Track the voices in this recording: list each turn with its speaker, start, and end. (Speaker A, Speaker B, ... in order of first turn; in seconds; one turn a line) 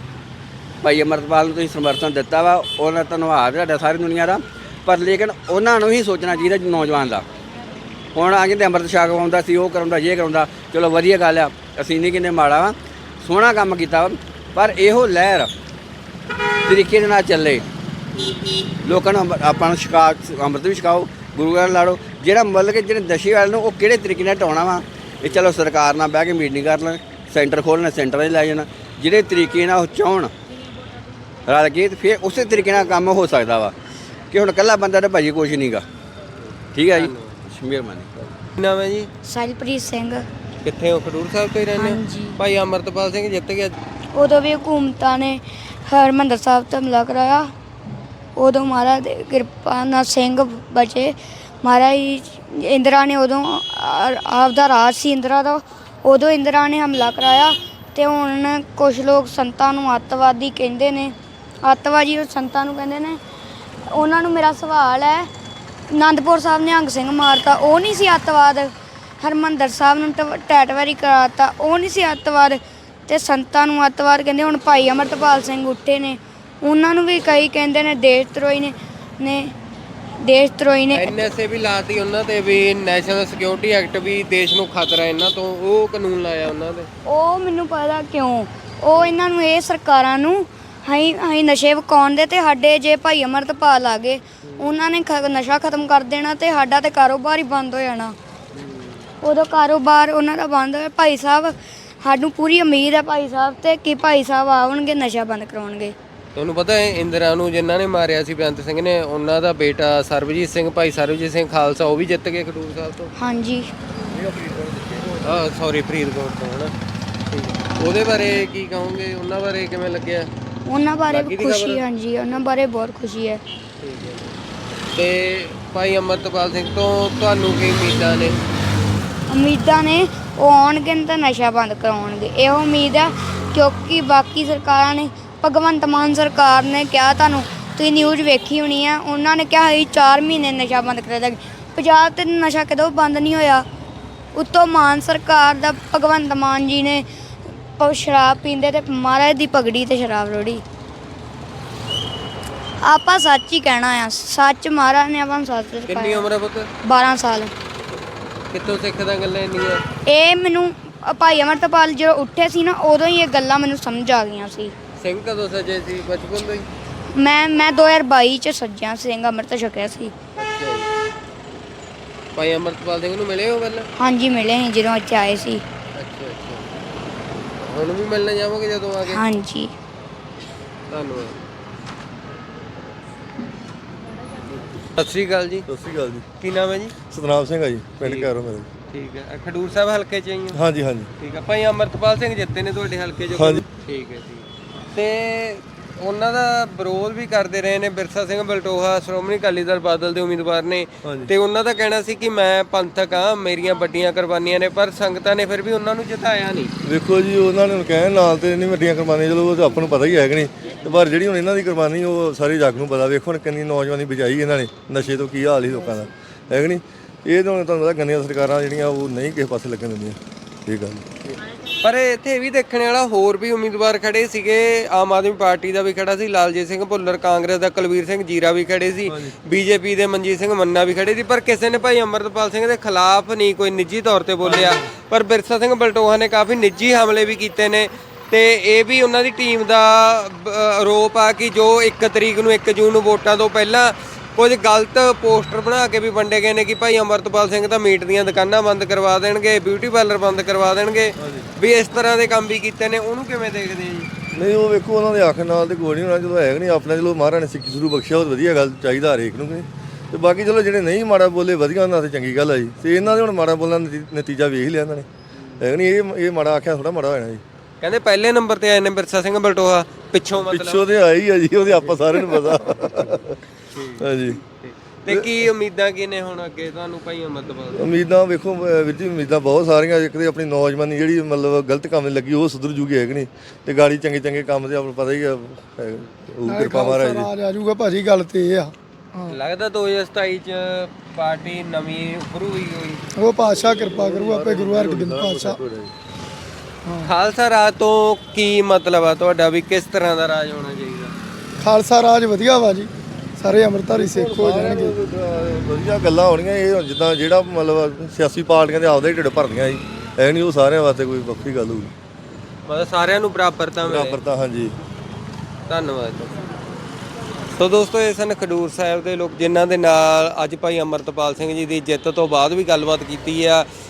Speaker A: 0.8-7.2
Speaker A: 8.1-15.5
Speaker A: 16.6-17.6
Speaker A: 18.8-30.3
Speaker A: 31.4-33.7
Speaker A: 34.3-35.8
Speaker B: 36.4-37.3
Speaker A: 36.7-38.1
Speaker B: 38.5-39.1
Speaker C: 39.2-40.2
Speaker B: 40.6-43.8
Speaker C: 41.8-42.4
Speaker C: 44.1-47.5
Speaker C: 48.4-63.2
Speaker C: 63.9-65.3
Speaker C: 65.9-79.5
Speaker C: 80.2-81.2
Speaker B: 80.9-86.9
Speaker C: 87.0-98.1
Speaker B: 94.4-94.7
Speaker B: 98.5-99.1
Speaker C: 99.2-105.9
Speaker B: 106.3-113.1
Speaker C: 113.2-113.7
Speaker D: 114.2-115.1
Speaker B: 115.2-116.7
Speaker B: 117.3-120.3
Speaker C: 120.6-123.4
Speaker B: 121.1-121.8
Speaker B: 123.8-124.3
Speaker B: 124.9-128.4
Speaker C: 129.3-143.7
Speaker C: 144.3-147.0
Speaker C: 147.8-150.6
Speaker C: 152.8-156.3
Speaker B: 155.9-156.7
Speaker C: 156.8-157.5
Speaker B: 158.5-159.8
Speaker C: 160.1-164.7
Speaker B: 165.0-166.7
Speaker C: 167.1-170.1
Speaker B: 170.4-170.9
Speaker B: 172.3-173.9
Speaker C: 173.9-175.6
Speaker B: 175.9-176.6
Speaker B: 177.6-179.2
Speaker C: 179.1-179.7
Speaker B: 180.9-181.4
Speaker B: 184.9-185.7
Speaker D: 185.7-186.2
Speaker B: 186.4-186.9
Speaker D: 187.1-188.7
Speaker B: 188.0-188.3
Speaker B: 188.9-190.6
Speaker D: 190.5-191.1
Speaker B: 191.2-206.7
Speaker D: 193.3-193.6
Speaker D: 201.0-201.3
Speaker D: 206.8-221.0
Speaker B: 221.8-254.1
Speaker D: 229.1-229.3
Speaker D: 234.4-234.8
Speaker D: 251.2-251.5
Speaker D: 254.3-265.1
Speaker B: 265.3-265.6
Speaker D: 265.6-267.4
Speaker B: 267.8-270.8
Speaker D: 270.4-273.4
Speaker B: 273.7-277.9
Speaker D: 274.0-274.4
Speaker D: 275.1-275.4
Speaker D: 277.7-287.3
Speaker E: 286.4-289.4
Speaker B: 289.3-293.0
Speaker E: 293.2-295.6
Speaker D: 293.6-295.9
Speaker B: 297.0-301.1
Speaker E: 301.6-304.9
Speaker D: 303.9-311.9
Speaker B: 312.7-314.2
Speaker D: 313.8-314.7
Speaker B: 315.7-316.4
Speaker B: 317.6-323.6